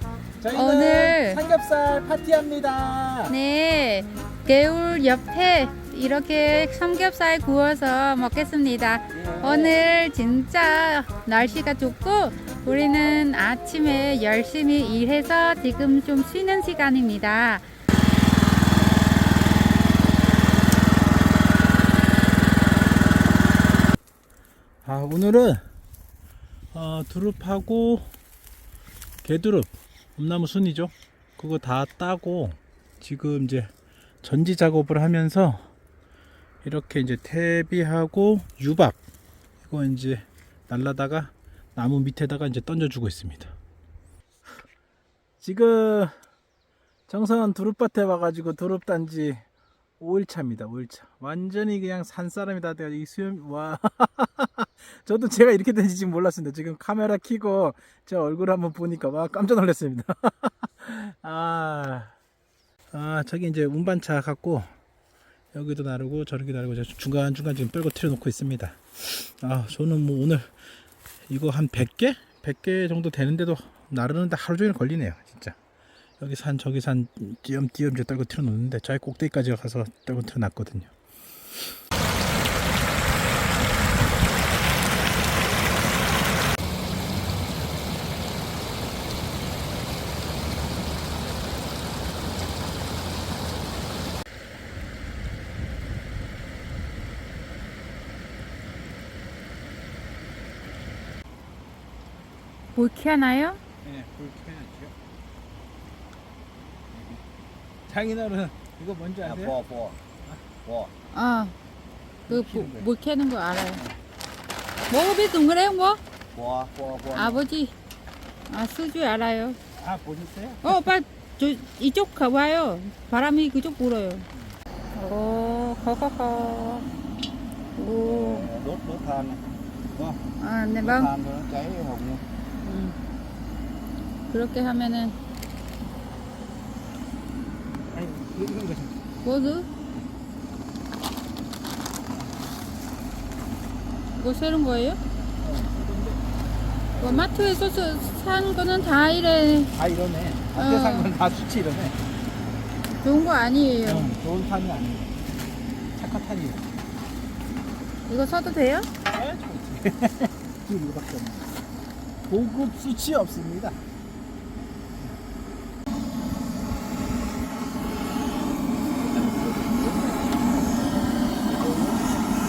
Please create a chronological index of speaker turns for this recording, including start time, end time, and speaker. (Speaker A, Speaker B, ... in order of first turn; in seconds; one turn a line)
Speaker A: 0.4-3.3
Speaker B: 0.5-1.4
Speaker B: 3.3-17.7
Speaker A: 9.1-9.8
Speaker A: 24.8-25.6
Speaker A: 26.7-28.1
Speaker A: 29.2-33.7
Speaker A: 34.2-35.6
Speaker A: 36.6-39.0
Speaker A: 39.7-43.5
Speaker A: 45.4-46.1
Speaker A: 47.1-49.4
Speaker A: 50.0-62.1
Speaker A: 62.9-64.7
Speaker A: 65.5-70.5
Speaker A: 71.3-75.6
Speaker A: 76.2-80.9
Speaker A: 81.5-81.8
Speaker B: 102.8-103.6
Speaker A: 103.8-104.9
Speaker C: 106.9-107.2
Speaker A: 107.9-109.5
Speaker C: 109.2-110.0
Speaker C: 110.7-110.9
Speaker B: 111.1-111.5
Speaker A: 112.3-112.9
Speaker B: 112.3-113.8
Speaker B: 114.9-116.0
Speaker C: 116.3-117.4
Speaker B: 117.2-117.7
Speaker B: 118.5-119.6
Speaker A: 119.8-120.9
Speaker B: 120.6-124.3
Speaker B: 124.9-126.9
Speaker B: 127.8-128.5
Speaker C: 128.0-129.4
Speaker C: 129.9-130.2
Speaker B: 130.4-131.1
Speaker C: 130.8-132.2
Speaker B: 132.6-133.0
Speaker B: 134.3-135.2
Speaker A: 137.9-139.0
Speaker B: 139.2-139.7
Speaker B: 144.2-145.0
Speaker A: 145.4-146.2
Speaker A: 146.9-147.3
Speaker B: 147.0-149.7
Speaker A: 149.8-152.0
Speaker B: 150.6-151.1
Speaker B: 153.0-154.1
Speaker A: 153.9-155.2
Speaker A: 155.9-156.7
Speaker B: 158.1-158.9
Speaker A: 159.1-161.6
Speaker A: 162.3-163.8
Speaker C: 169.0-170.1
Speaker C: 171.4-172.2